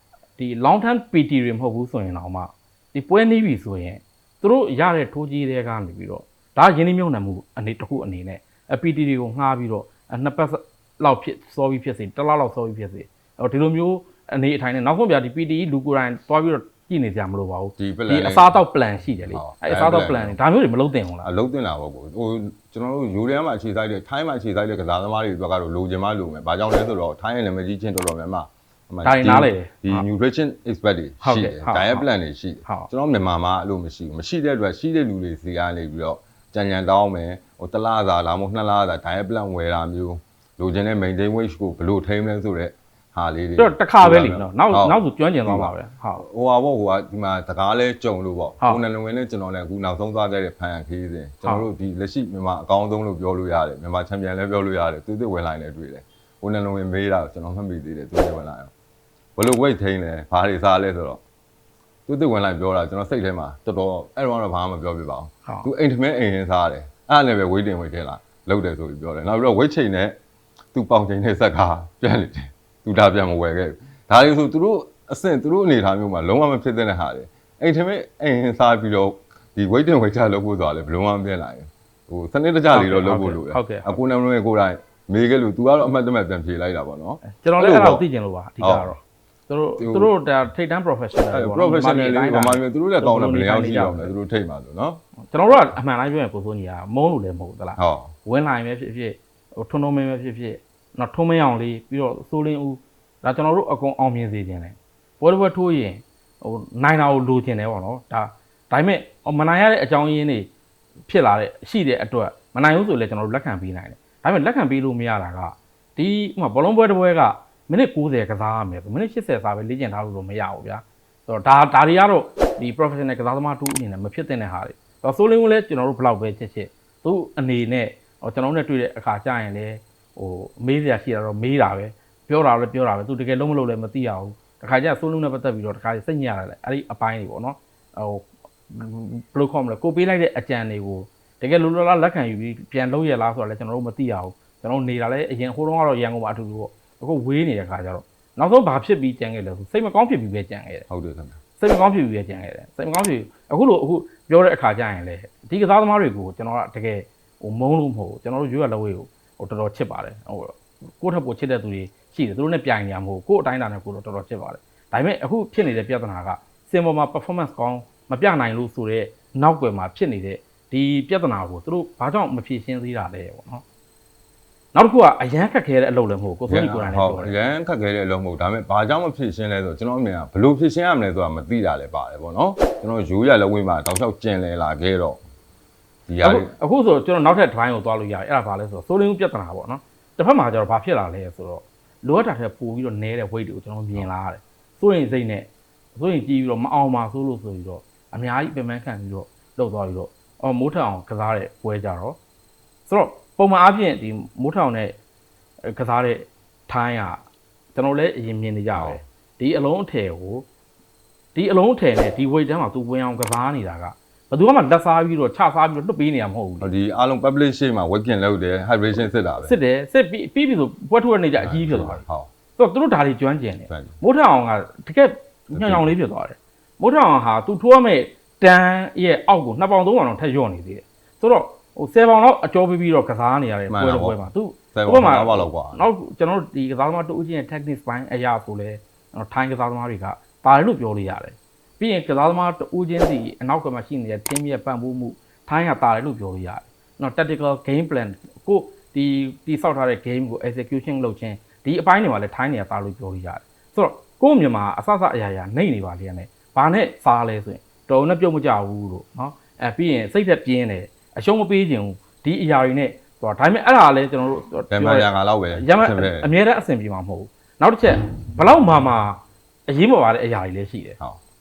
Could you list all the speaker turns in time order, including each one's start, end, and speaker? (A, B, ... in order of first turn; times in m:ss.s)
0:00.4-0:21.3 A
0:17.8-0:18.6 B
0:19.3-0:20.4 B
0:21.2-0:58.7 B
0:29.0-0:30.1 A
0:31.2-0:32.1 A
0:32.6-0:32.9 A
0:43.6-0:46.2 A
0:59.4-1:01.2 B
1:02.1-1:10.2 B
1:10.7-1:28.0 B
1:22.7-1:23.9 A
1:27.2-1:34.1 A
1:28.6-1:28.9 B
1:29.8-1:30.1 B
1:31.3-1:35.0 B
1:35.3-1:50.5 A
1:37.8-1:38.1 B
1:51.1-2:30.9 A
2:30.9-2:31.4 B
2:31.6-2:53.6 A
2:54.7-2:57.4 A
2:56.5-3:05.2 B
3:06.1-3:06.5 B
3:06.2-3:22.2 A
3:22.9-3:24.9 A
3:25.6-3:27.2 A
3:27.8-3:30.4 A
3:28.7-3:29.0 B
3:31.3-3:36.7 A
3:36.6-3:39.6 B
3:39.4-3:42.0 A
3:41.4-3:42.3 B
3:42.6-4:31.0 A
3:43.7-3:43.9 B
3:45.5-3:45.9 B
3:53.7-3:54.2 B
3:54.7-3:55.8 B
4:24.7-4:26.3 B